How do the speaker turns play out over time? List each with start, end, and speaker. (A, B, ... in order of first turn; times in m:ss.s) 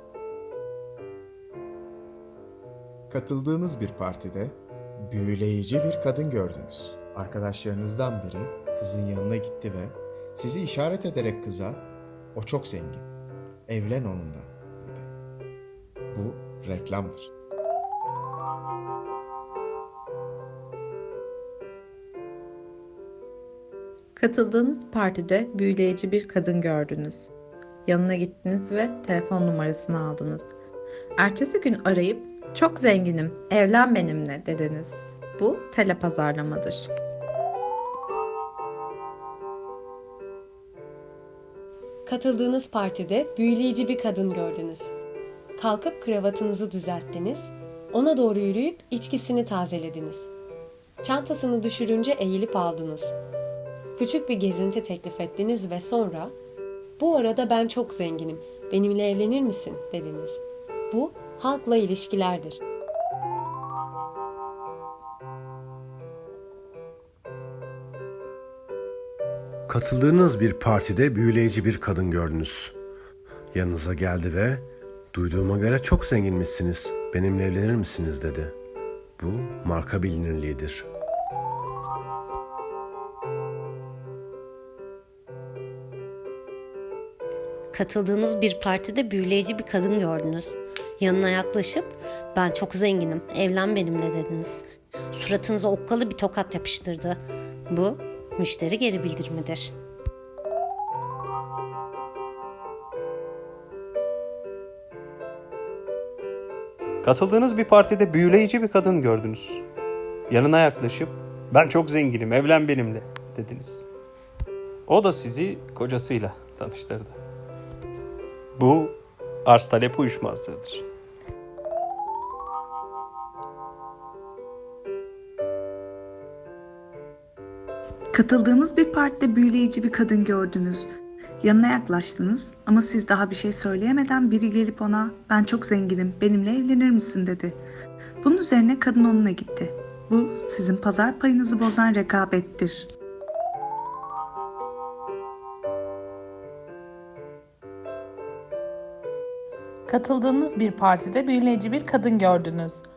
0:03.1-0:13.1 A
0:13.7-0:15.1 A
0:16.1-0:17.3 A
0:24.2-0:27.3 B
0:27.8-0:30.5 B
0:31.2-0:36.9 B
0:42.0-0:44.9 C
0:45.6-0:50.3 C
0:51.0-0:53.1 C
0:54.0-0:56.3 C
0:57.0-1:02.6 C
1:09.7-1:12.7 D
1:13.5-1:18.5 D
1:19.2-1:20.9 D
1:27.7-1:37.2 E
1:37.7-1:39.7 E
1:47.0-1:49.6 F
1:50.3-1:53.8 F
1:54.9-1:57.2 F
1:58.6-1:58.9 F
1:59.5-2:00.8 F
2:08.1-2:10.9 G
2:11.4-2:17.6 G
2:18.2-2:22.9 G
2:29.9-2:32.8 H